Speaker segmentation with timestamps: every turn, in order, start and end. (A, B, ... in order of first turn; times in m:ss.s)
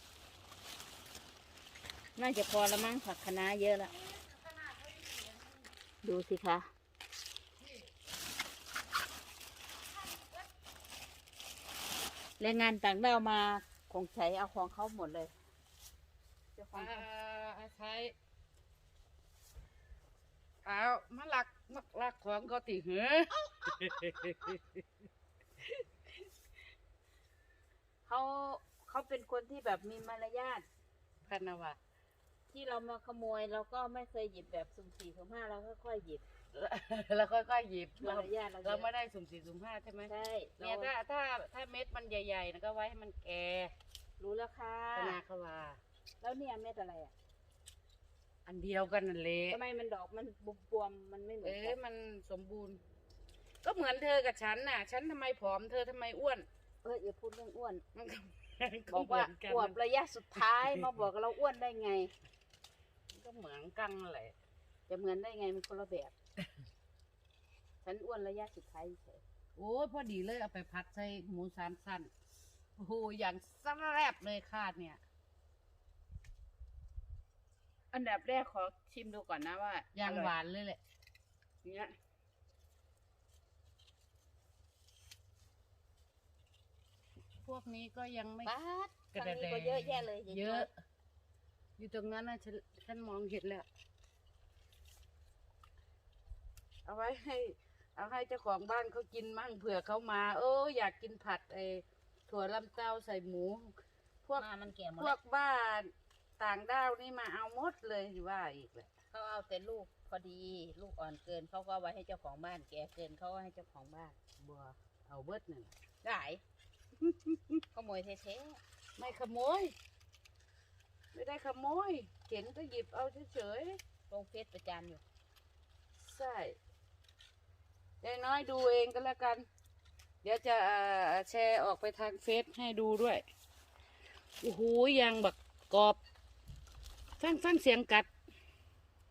0:02.2-0:04.0 A
0:03.9-0:05.7 B
0:06.0-0:06.7 A
0:07.6-0:07.9 B
0:10.0-0:10.4 B
0:12.4-0:15.3 A
0:16.6-0:17.1 A
0:16.8-0:18.1 B
0:20.6-0:24.8 B
0:28.1-0:30.7 A
0:31.2-0:31.8 B
0:32.5-0:36.2 A
0:36.5-0:43.7 B
0:38.0-0:38.9 A
0:40.1-0:40.9 A
0:44.2-0:45.2 A
0:44.9-0:45.8 B
0:46.2-0:47.1 A
0:48.5-0:49.6 B
0:49.5-0:51.8 A
0:51.4-0:52.8 B
0:53.6-0:56.5 B
0:56.8-0:57.8 A
0:57.9-0:59.8 B
0:58.9-1:02.1 A
1:00.5-1:00.9 B
1:03.1-1:04.4 B
1:04.9-1:06.1 A
1:07.8-1:09.2 A
1:09.6-1:12.1 B
1:12.8-1:15.0 B
1:17.9-1:20.3 A
1:19.9-1:20.8 B
1:21.6-1:22.0 A
1:27.4-1:28.5 B
1:28.4-1:30.7 A
1:29.1-1:30.8 B
1:31.8-1:33.7 B
1:36.9-1:44.5 B
1:44.3-1:45.2 A
1:45.0-1:48.9 B
1:49.1-1:54.2 A
1:54.4-1:55.8 B
1:56.0-1:56.4 A
1:57.0-1:57.6 B
1:57.7-1:58.6 A
1:59.0-1:59.8 B
2:01.1-2:03.8 B
2:04.1-2:05.0 A
2:06.0-2:06.6 B
2:08.0-2:09.5 B
2:10.2-2:13.2 B
2:14.4-2:16.0 B
2:17.2-2:18.1 B